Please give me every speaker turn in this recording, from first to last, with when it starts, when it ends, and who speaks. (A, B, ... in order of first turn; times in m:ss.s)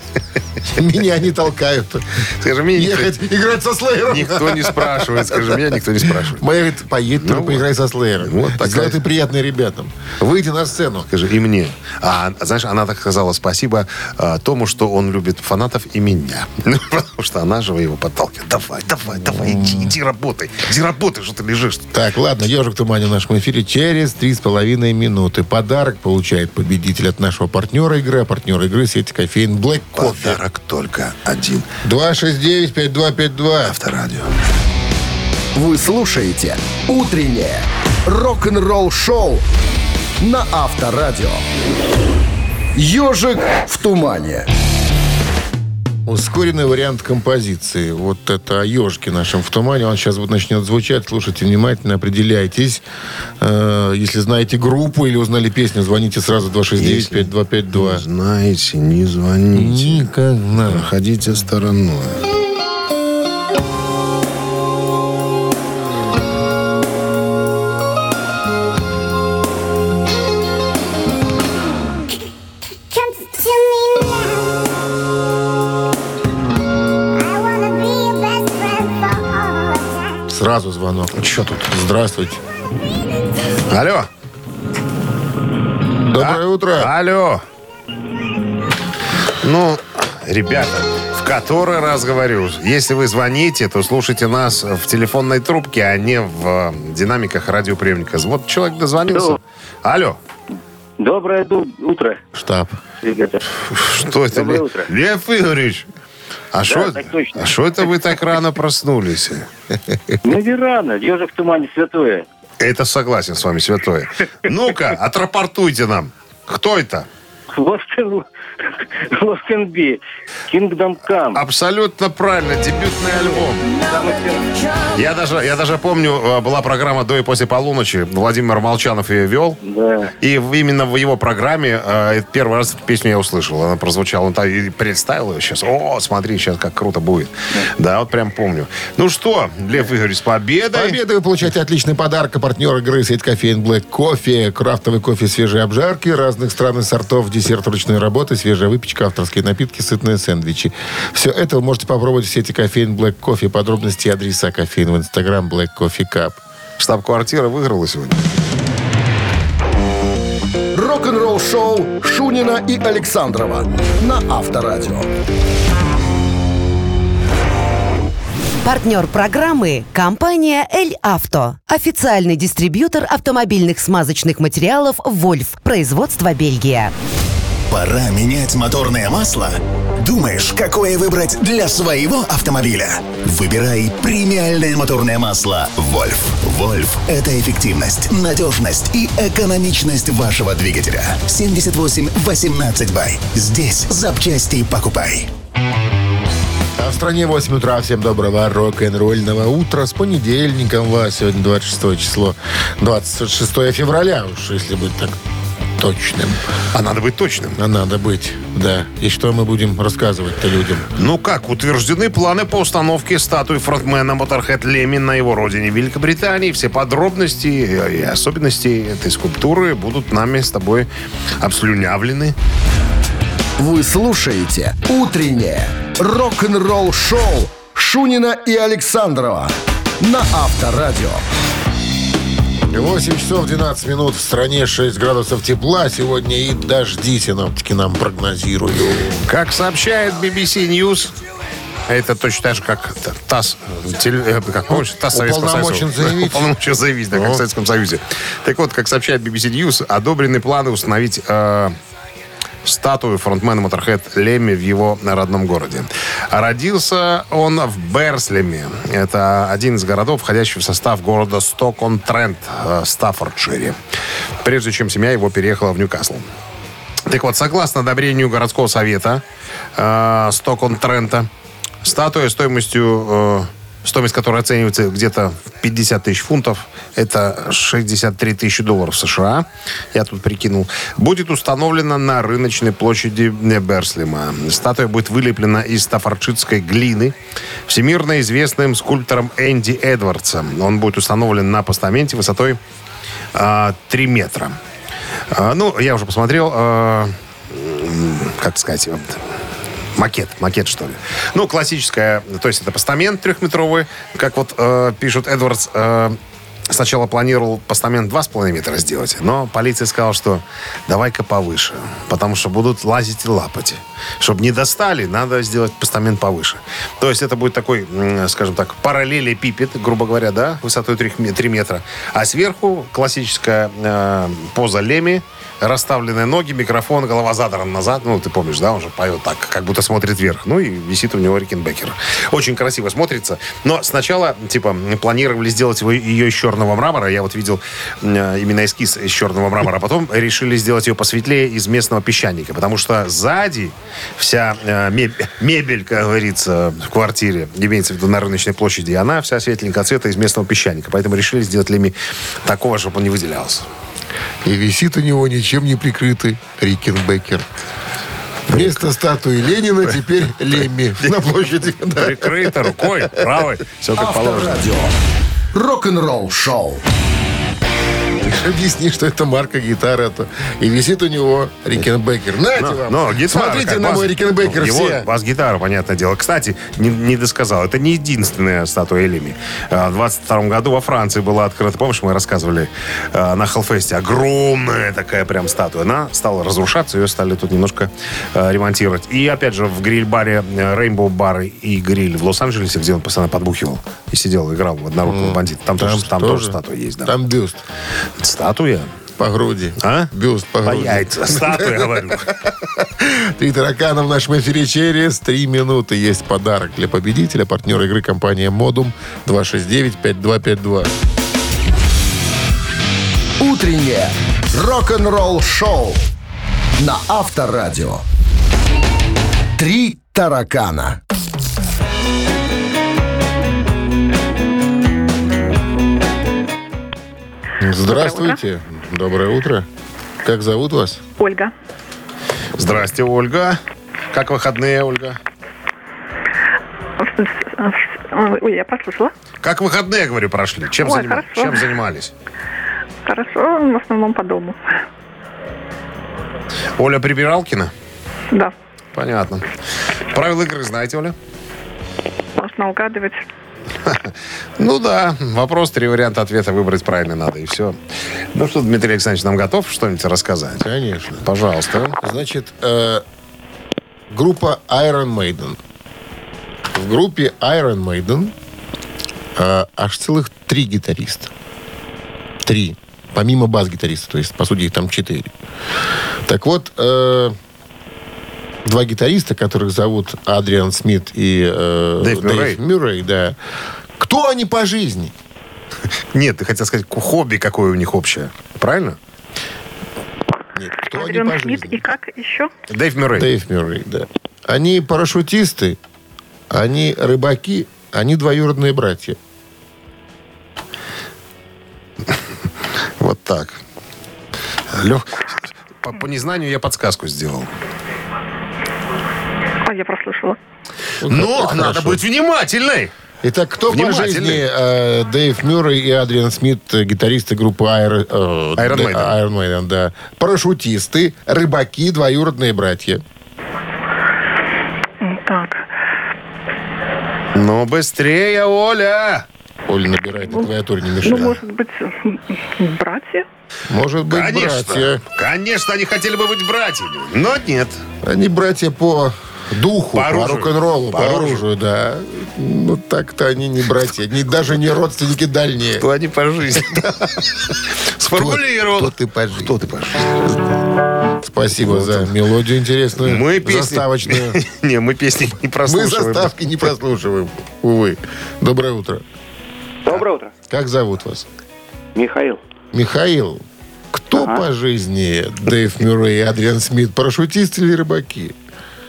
0:00.6-0:11.1 A
0:02.4-0:03.1 B
0:04.1-0:06.4 B
0:07.2-0:07.7 B
0:08.2-0:09.0 B
0:11.1-0:21.8 B
0:19.2-0:20.0 A
0:21.9-0:30.4 A
0:30.0-0:31.7 B
0:31.8-0:33.8 A
0:33.6-0:34.3 B
0:35.6-0:39.5 C
0:40.2-0:41.4 C
0:42.8-0:44.5 C
0:46.1-0:52.8 A
0:53.4-0:58.0 A
0:56.8-1:00.1 B
0:59.5-1:00.9 A
1:00.7-1:02.2 B
1:20.3-1:22.4 A
1:21.2-1:21.7 B
1:23.7-1:24.1 B
1:26.0-1:26.9 A
1:26.1-1:27.4 B
1:29.4-1:40.2 B
1:39.1-1:39.4 D
1:41.0-1:42.2 D
1:42.4-1:42.8 A
1:43.0-1:43.4 D
1:43.7-1:45.9 B
1:44.3-1:44.9 D
1:46.5-1:49.5 B
1:46.6-1:47.5 D
1:50.2-1:52.3 D
1:52.6-1:57.1 B
1:57.5-1:58.3 D
1:59.0-2:01.4 D
2:01.3-2:03.6 B
2:03.7-2:04.9 D
2:04.9-2:09.6 B
2:09.6-2:10.1 D
2:10.2-2:21.0 B
2:20.7-2:36.4 A
2:36.8-2:38.2 B
2:40.7-2:45.1 C
2:48.6-2:56.9 E
2:57.7-3:15.3 F
3:16.8-3:25.2 A
3:25.8-3:26.4 A
3:26.7-3:27.6 B
3:27.6-3:30.9 A
3:31.0-3:40.9 B
3:41.4-3:42.4 B
3:43.6-3:51.2 C
3:52.7-3:59.2 A
3:59.2-4:01.1 B
4:01.9-4:11.8 B
4:04.7-4:06.5 A
4:07.1-4:07.4 A
4:12.6-4:23.8 B
4:24.4-4:26.2 B
4:27.1-4:29.2 B
4:29.8-4:31.3 B
4:31.8-4:47.2 B
4:47.7-4:52.6 B
4:53.3-4:54.6 B
4:55.3-4:59.2 B
5:00.0-5:06.2 B
5:06.7-5:53.7 B
5:54.4-5:57.5 A
5:58.5-5:58.8 B
5:58.5-6:03.3 A
6:02.0-6:04.6 B
6:04.0-6:04.9 C
6:05.5-6:06.8 C
6:08.2-6:15.1 A
6:12.6-6:37.1 B
6:35.0-6:37.6 A
6:38.2-6:38.9 B
6:39.2-6:42.2 A
6:39.8-6:40.1 B
6:40.6-6:42.3 B
6:42.8-6:50.9 A
6:53.4-6:56.0 C
6:56.8-6:58.0 C
6:59.6-7:01.0 C
7:07.6-7:09.7 A
7:07.9-7:08.4 G
7:10.2-7:11.0 A
7:11.2-7:11.5 G
7:12.6-7:13.6 B
7:14.1-7:15.2 B
7:17.0-7:19.1 G
7:19.4-7:22.1 B
7:20.8-7:21.7 G
7:23.0-7:24.8 G
7:26.8-7:27.7 B
7:29.0-7:29.4 B
7:30.1-7:31.2 B
7:32.4-7:33.2 G
7:33.9-7:37.8 B
7:38.3-7:40.7 B
7:40.6-7:41.3 A
7:41.2-7:42.0 B
7:42.0-7:43.0 A
7:44.1-7:45.6 A
7:46.7-7:48.3 A
7:49.4-7:51.3 A
7:52.4-7:55.3 A
7:56.3-7:57.4 A
7:58.6-8:03.4 A
8:02.0-8:02.6 B
8:04.0-8:05.1 A
8:06.1-8:09.0 B
8:10.6-8:11.9 A
8:10.9-8:12.5 G
8:12.7-8:13.3 B
8:13.2-8:15.8 A
8:16.5-8:19.2 A
8:23.0-8:23.6 B
8:24.7-8:27.5 B
8:29.6-8:30.4 G
8:31.0-8:32.0 A
8:31.1-8:32.9 B
8:33.2-8:43.0 A
8:33.7-8:34.4 B
8:38.6-8:39.2 B
8:45.0-8:45.6 G
8:47.3-8:49.2 B
8:49.7-8:51.4 A
8:51.0-8:53.3 G
8:53.7-8:55.0 A
8:54.1-8:57.8 B
8:58.0-9:05.9 A
8:59.9-9:01.4 B
9:05.8-9:10.2 B
9:08.2-9:09.5 A
9:10.1-9:10.6 A
9:11.2-9:14.4 A
9:11.6-9:12.2 B
9:13.0-9:16.7 B
9:15.7-9:19.0 A
9:19.8-9:20.3 D
9:20.5-9:21.3 A
9:22.0-9:22.4 D
9:22.7-9:28.4 A
9:24.2-9:24.4 D